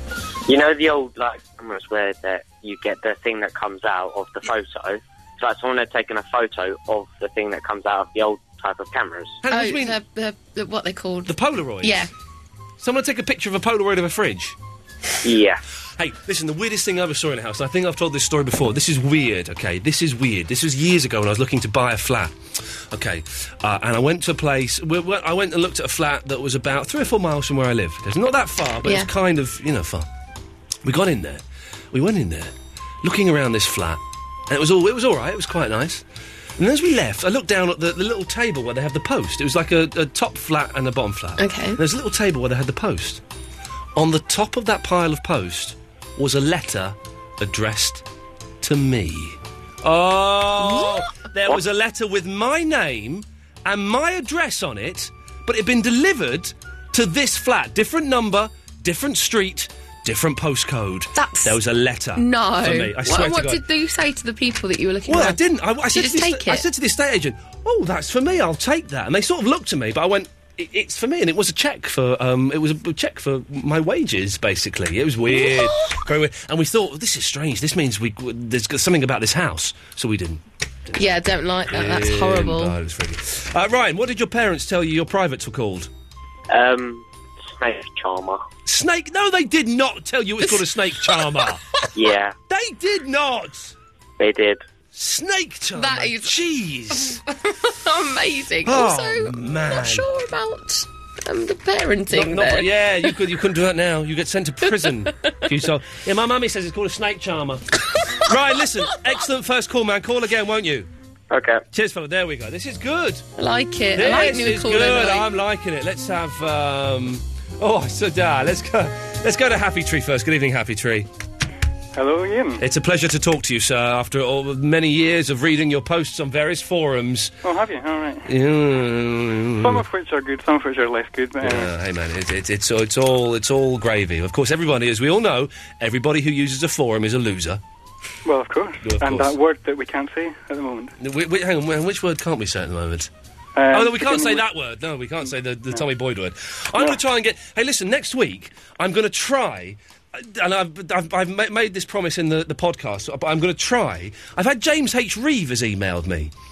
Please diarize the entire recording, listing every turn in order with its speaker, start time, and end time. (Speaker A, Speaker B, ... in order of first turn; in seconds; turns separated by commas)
Speaker A: 0.5-9.4, Speaker B: 9.4-10.0, Speaker C: 9.5-12.1, Speaker B: 11.3-12.1, Speaker B: 12.8-14.6, Speaker A: 15.2-15.6, Speaker B: 16.0-22.4, Speaker B: 22.9-30.1, Speaker B: 30.8-32.5, Speaker B: 33.0-36.0, Speaker B: 36.6-43.2, Speaker C: 41.4-41.8, Speaker B: 44.0-48.0, Speaker B: 48.6-63.6, Speaker C: 61.1-61.6, Speaker C: 62.1-65.4, Speaker B: 65.1-81.0, Speaker C: 65.9-66.6, Speaker C: 75.3-75.9, Speaker C: 81.0-82.7, Speaker B: 81.7-85.9, Speaker A: 86.5-88.4, Speaker B: 88.7-91.6, Speaker A: 91.9-92.3, Speaker B: 92.5-93.7, Speaker A: 94.2-94.6, Speaker B: 94.9-97.2, Speaker C: 95.8-96.3, Speaker C: 96.9-102.7, Speaker B: 98.6-100.0, Speaker B: 102.1-107.6, Speaker B: 108.2-110.9, Speaker A: 111.3-111.6, Speaker B: 111.7-113.2, Speaker C: 113.4-115.3, Speaker B: 113.9-121.1, Speaker D: 122.0-122.6, Speaker B: 122.6-127.3, Speaker D: 127.4-128.3, Speaker B: 128.2-129.8, Speaker D: 129.6-131.7, Speaker B: 131.4-137.6, Speaker D: 138.2-140.9, Speaker B: 138.8-139.3, Speaker B: 141.0-143.1, Speaker D: 143.6-144.4, Speaker B: 143.7-156.3